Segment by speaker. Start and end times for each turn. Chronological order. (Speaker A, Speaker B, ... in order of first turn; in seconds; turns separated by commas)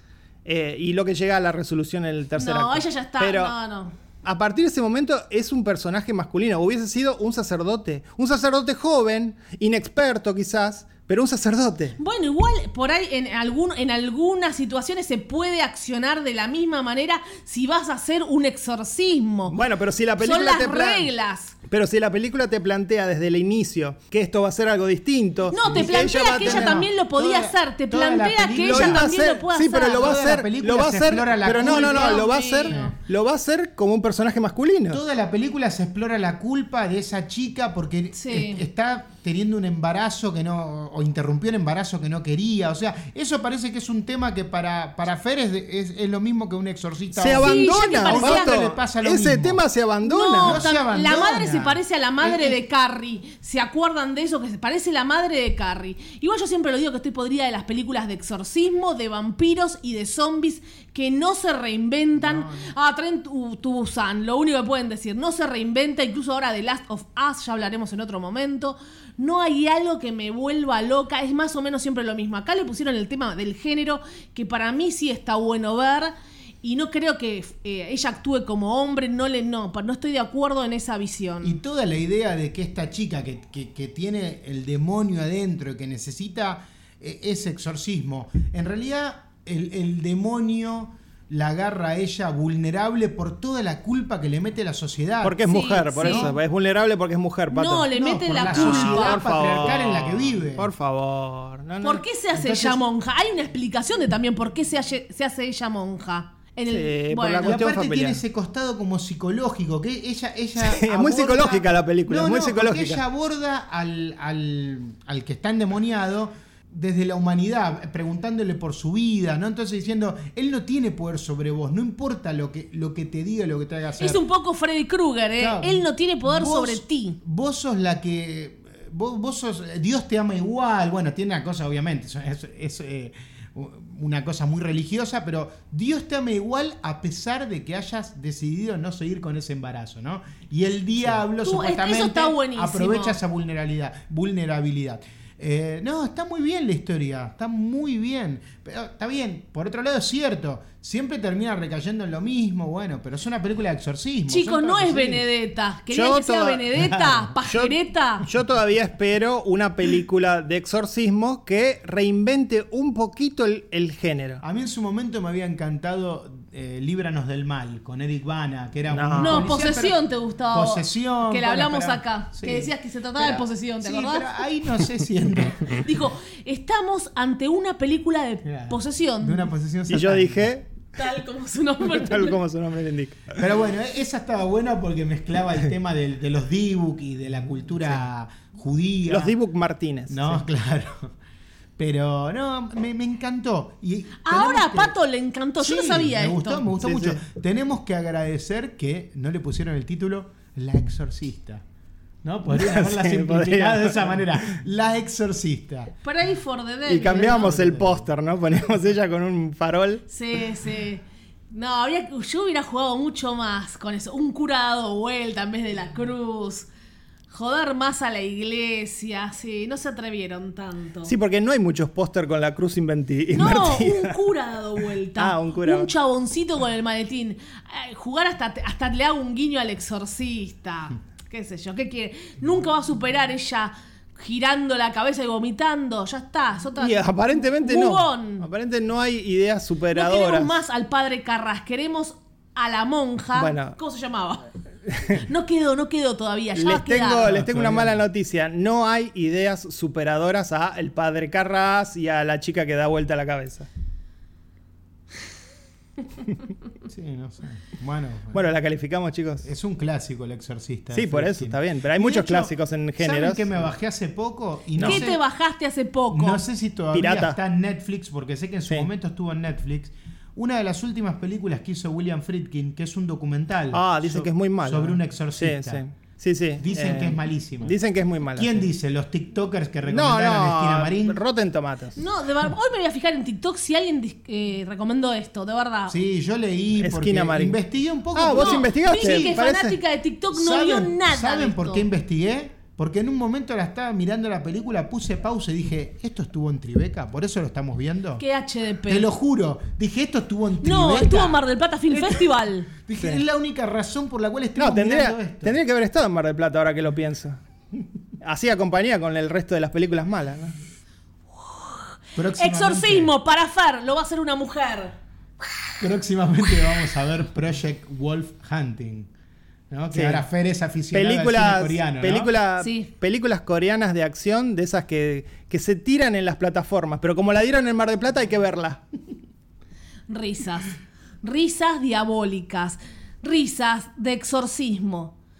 Speaker A: 0.4-3.5, Speaker B: 2.4-3.9, Speaker A: 4.2-12.0, Speaker B: 12.0-19.6, Speaker A: 19.5-21.1, Speaker B: 20.2-21.5, Speaker A: 21.7-26.8, Speaker B: 25.5-30.2, Speaker C: 25.6-29.1, Speaker A: 28.6-35.0, Speaker C: 29.9-32.9, Speaker B: 31.6-33.0, Speaker C: 34.9-49.6, Speaker B: 38.1-38.6, Speaker A: 47.1-50.6, Speaker B: 47.4-48.5, Speaker B: 50.0-81.6, Speaker C: 50.4-52.6, Speaker C: 62.1-62.7, Speaker C: 81.4-95.4, Speaker A: 95.2-102.0, Speaker B: 95.5-96.3, Speaker C: 95.9-96.4, Speaker B: 97.5-99.2, Speaker C: 97.9-100.7, Speaker B: 101.8-107.6, Speaker C: 102.3-102.8, Speaker A: 106.7-108.2, Speaker C: 107.4-124.2, Speaker A: 110.6-113.0, Speaker B: 124.0-127.2, Speaker C: 125.4-155.2, Speaker B: 141.4-143.2, Speaker B: 154.3-158.3, Speaker A: 155.9-156.8, Speaker C: 156.7-157.3, Speaker A: 157.4-164.4, Speaker C: 164.4-175.8, Speaker A: 168.9-169.5, Speaker B: 169.2-174.2, Speaker B: 175.8-179.5, Speaker C: 178.4-180.5, Speaker A: 179.9-180.7, Speaker B: 180.9-182.4, Speaker A: 181.8-183.4, Speaker C: 183.3-189.3, Speaker A: 189.1-190.4, Speaker C: 190.1-191.1, Speaker C: 191.8-194.9, Speaker B: 194.2-196.6, Speaker C: 195.6-201.6, Speaker A: 196.8-197.2, Speaker C: 202.2-205.9, Speaker A: 202.5-204.3, Speaker B: 206.0-207.6, Speaker A: 206.8-210.0, Speaker C: 207.1-208.1, Speaker B: 210.1-216.7, Speaker B: 217.3-221.1, Speaker A: 221.1-224.1, Speaker B: 223.3-238.4, Speaker A: 225.1-225.9, Speaker A: 236.8-240.6, Speaker B: 239.9-244.5, Speaker A: 243.3-243.8, Speaker A: 244.9-245.2, Speaker B: 245.1-247.3, Speaker A: 246.5-253.7, Speaker C: 247.2-248.0, Speaker C: 256.8-258.4, Speaker A: 258.3-259.5, Speaker C: 259.4-265.2, Speaker A: 260.9-263.5, Speaker A: 264.8-265.1, Speaker B: 264.8-266.4, Speaker C: 266.1-275.8, Speaker A: 266.9-267.4, Speaker A: 273.7-278.6, Speaker C: 276.6-277.8, Speaker C: 278.3-281.2, Speaker A: 279.9-282.0, Speaker B: 281.9-286.0, Speaker C: 285.9-289.4, Speaker A: 286.8-287.6, Speaker A: 288.1-289.8, Speaker B: 288.3-291.8, Speaker C: 290.3-298.2, Speaker B: 298.2-299.1, Speaker C: 298.9-305.6, Speaker B: 300.6-302.7, Speaker A: 304.6-307.4, Speaker A: 308.2-310.6, Speaker B: 311.5-315.0, Speaker C: 312.1-313.1, Speaker C: 315.8-319.1, Speaker C: 319.7-322.3, Speaker A: 319.9-320.2, Speaker A: 320.9-328.8, Speaker B: 322.6-322.9, Speaker B: 330.1-335.1